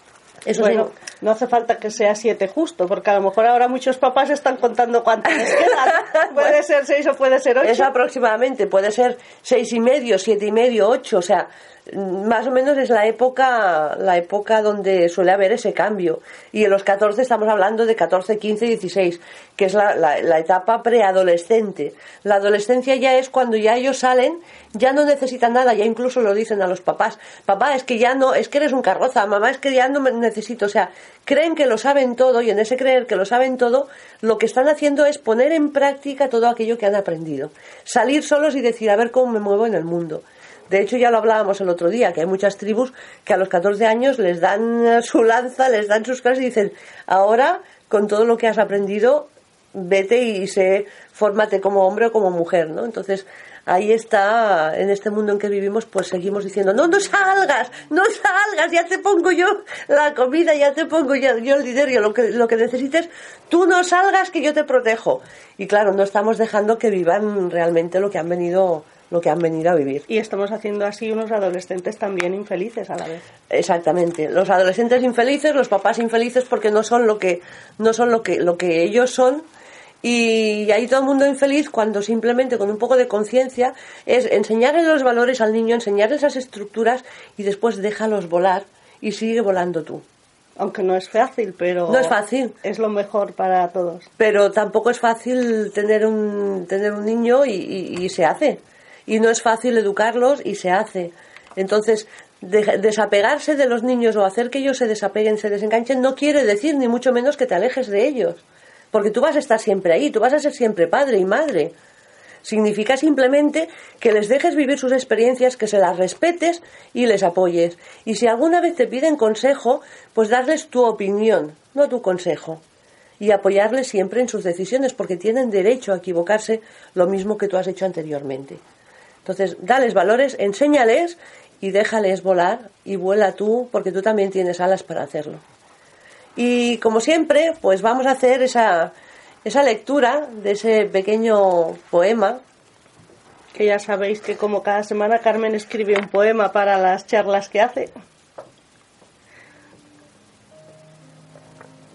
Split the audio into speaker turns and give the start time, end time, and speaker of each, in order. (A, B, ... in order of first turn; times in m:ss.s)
0:00.4-0:00.9 A
0:00.6-0:07.9 B
0:05.9-0:06.5 A
0:07.6-1:10.0 A
1:10.1-1:13.2 B
1:13.5-1:19.4 A
1:20.0-1:30.0 A
1:30.6-1:34.1 B
1:31.9-1:32.5 A
1:34.2-1:51.7 A
1:52.4-2:02.6 A
2:03.2-2:08.6 A
2:09.2-2:15.4 A
2:16.4-2:18.9 A
2:19.4-2:22.4 A
2:23.5-2:27.9 B